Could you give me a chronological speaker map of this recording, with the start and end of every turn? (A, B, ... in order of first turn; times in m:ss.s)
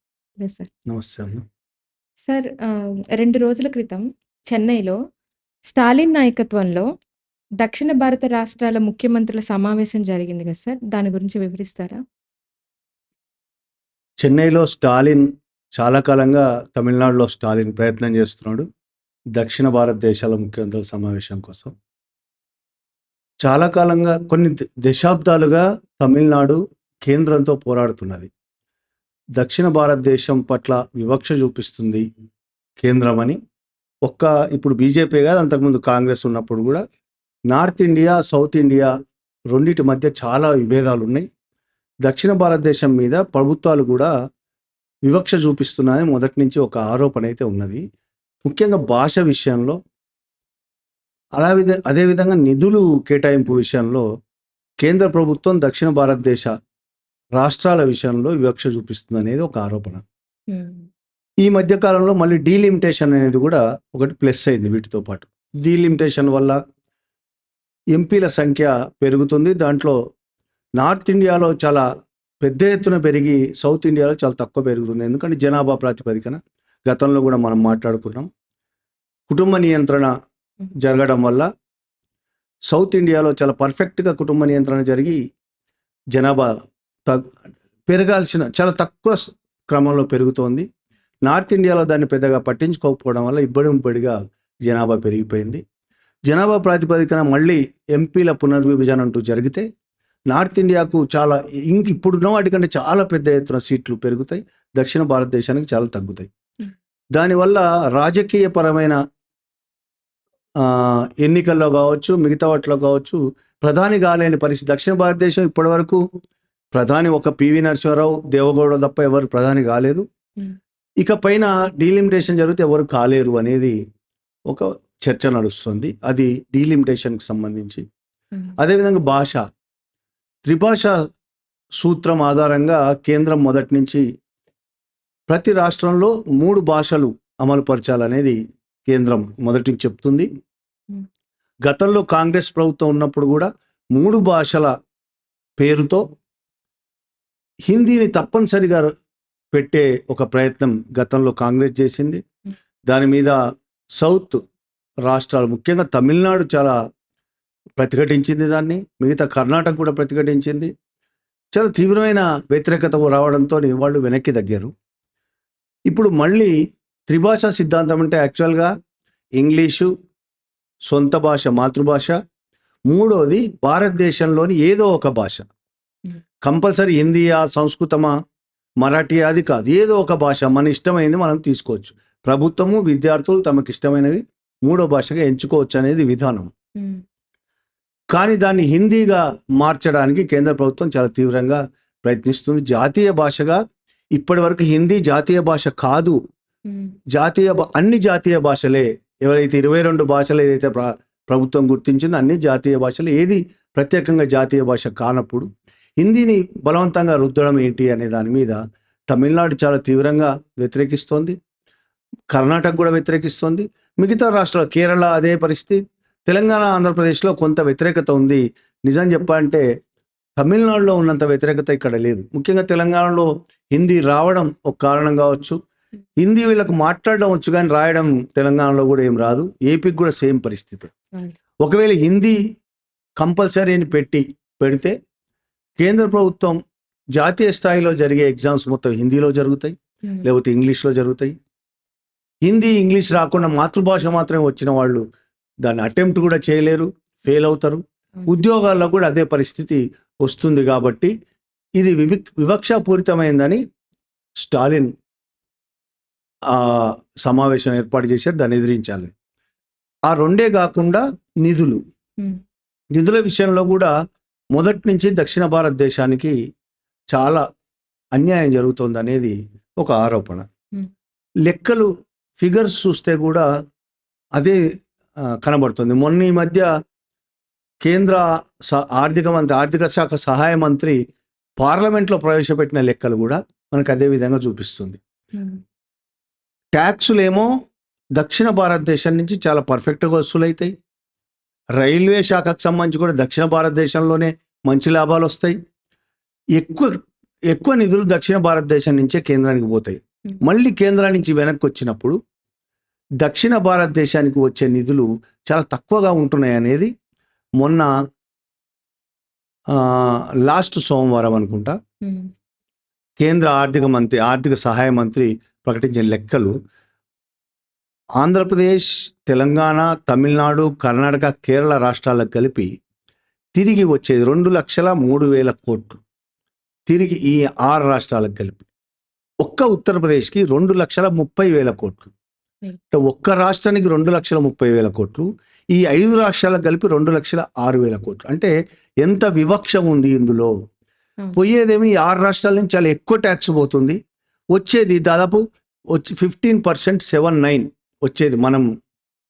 0:00.4-0:00.7 A
0:00.9-0:01.4 B
0:02.2-0:05.0 A
0:05.6-0:06.9 A
0:07.6-0:12.0 A
0:14.2-0:18.7 B
0:19.3-0:21.7 B
0:23.4-0:28.3 B
0:29.4-0:32.0 B
0:32.8-0:33.4 B
0:34.0-0:36.8 B
0:37.5-0:38.9 B
0:39.5-0:41.3 B
0:42.0-0:44.1 B
0:45.1-0:47.8 B
0:48.4-0:49.8 B
0:51.3-0:54.0 B
0:54.8-0:56.5 B
0:57.4-1:00.0 B
1:00.5-1:00.9 A
1:01.4-1:06.6 B
1:07.9-1:10.0 B
1:10.8-1:11.8 B
1:12.4-1:18.3 B
1:19.3-1:20.1 B
1:20.8-1:21.5 B
1:22.7-1:25.2 B
1:26.1-1:26.5 B
1:27.9-1:30.7 B
1:31.2-1:35.6 B
1:36.3-1:39.6 B
1:40.3-1:46.3 B
1:47.1-1:49.0 B
1:50.6-1:56.0 B
1:56.7-2:00.0 B
2:01.0-2:03.8 B
2:04.5-2:07.8 B
2:08.6-2:09.4 B
2:10.4-2:11.0 B
2:11.8-2:14.0 B
2:15.3-2:20.3 B
2:21.6-2:24.7 B
2:25.6-2:26.0 B
2:27.7-2:28.9 B
2:29.5-2:32.2 B
2:32.9-2:33.4 B
2:34.0-2:34.4 B
2:35.0-2:36.8 B
2:37.8-2:40.7 B
2:41.5-2:44.7 B
2:45.9-2:46.6 B
2:47.1-2:48.7 B
2:49.4-2:49.9 B
2:50.9-2:52.2 B
2:52.9-2:55.5 B
2:56.4-2:58.1 B
2:58.8-3:06.5 B
3:06.8-3:07.0 A
3:08.1-3:13.6 B
3:14.1-3:16.2 B
3:16.6-3:16.9 A
3:17.1-3:25.5 B
3:26.0-3:28.6 B
3:29.1-3:31.4 B
3:32.3-3:39.6 B
3:40.4-3:45.6 B
3:46.2-3:50.9 B
3:51.6-3:52.4 B
3:53.2-3:55.0 B
3:55.8-3:56.6 B
3:57.1-4:01.3 B
4:02.4-4:05.0 B
4:05.6-4:11.1 B
4:11.8-4:13.6 B
4:14.4-4:14.9 B
4:16.5-4:19.1 B
4:20.1-4:21.8 B
4:22.9-4:23.9 B
4:24.5-4:26.3 B
4:27.1-4:27.4 B
4:28.1-4:30.4 B
4:31.4-4:31.9 B
4:32.4-4:33.5 B
4:35.4-4:36.7 B
4:37.8-4:41.0 B
4:41.6-4:45.0 B
4:45.3-4:45.6 A
4:46.7-4:47.5 B
4:48.2-4:50.7 B
4:51.8-4:55.5 B
4:56.6-4:57.0 B
4:57.5-5:02.2 B
5:03.2-5:06.9 B
5:07.6-5:07.9 B
5:09.7-5:11.8 B
5:12.0-5:12.3 A
5:13.2-5:16.5 B
5:18.2-5:22.7 B
5:23.6-5:26.0 B
5:26.9-5:28.6 B
5:29.4-5:32.1 B
5:32.9-5:38.5 B
5:39.0-5:40.5 B
5:41.3-5:44.0 B
5:44.5-5:48.6 B